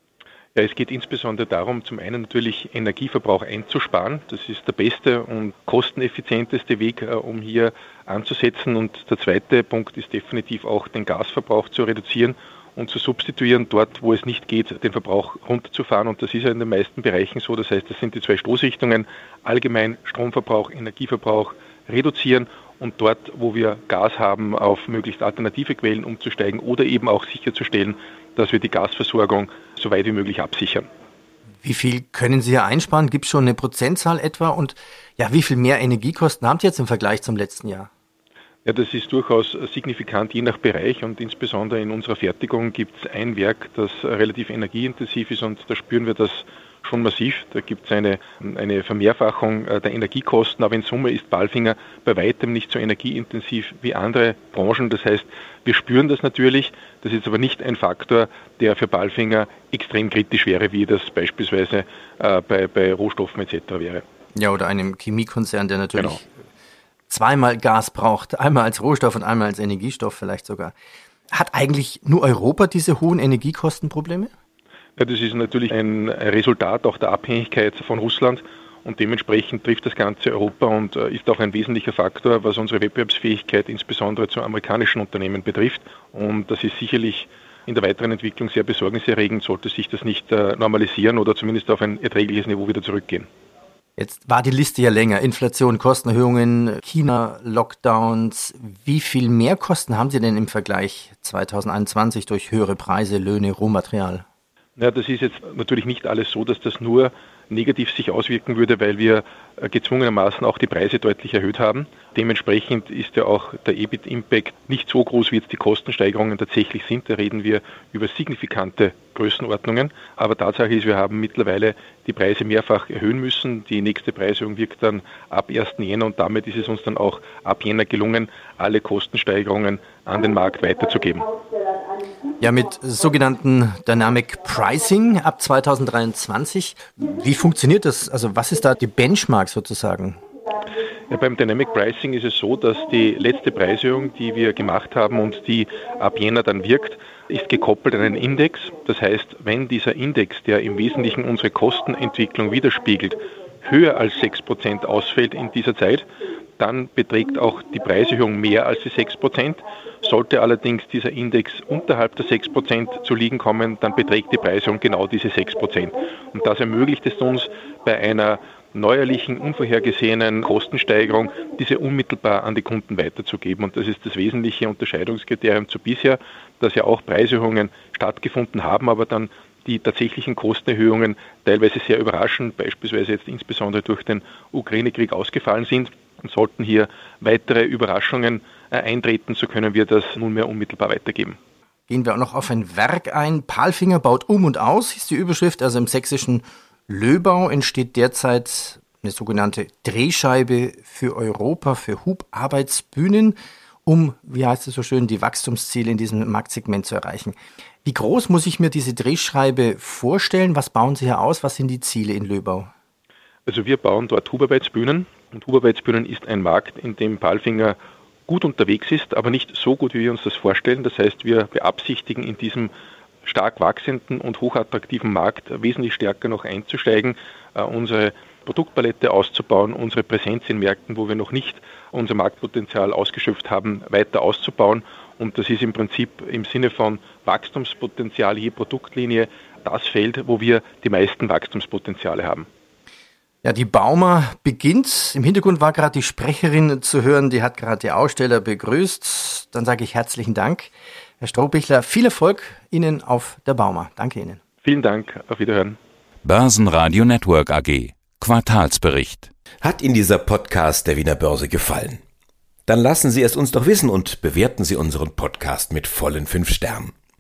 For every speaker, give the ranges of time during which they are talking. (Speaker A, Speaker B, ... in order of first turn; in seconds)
Speaker A: 0.6-30.9, 38.6-64.0, 75.0-93.3, 104.8-131.3, 141.1-156.1, 156.6-191.4, 213.5-222.7, 223.2-242.5, 254.6-255.8
Speaker B: 31.6-37.9, 64.4-66.3, 67.1-70.8, 71.3-74.3, 94.0-104.2, 132.4-140.2, 191.9-212.7, 243.4-254.4
Speaker C: 256.2-259.3
Speaker D: 259.6-262.0, 262.7-266.9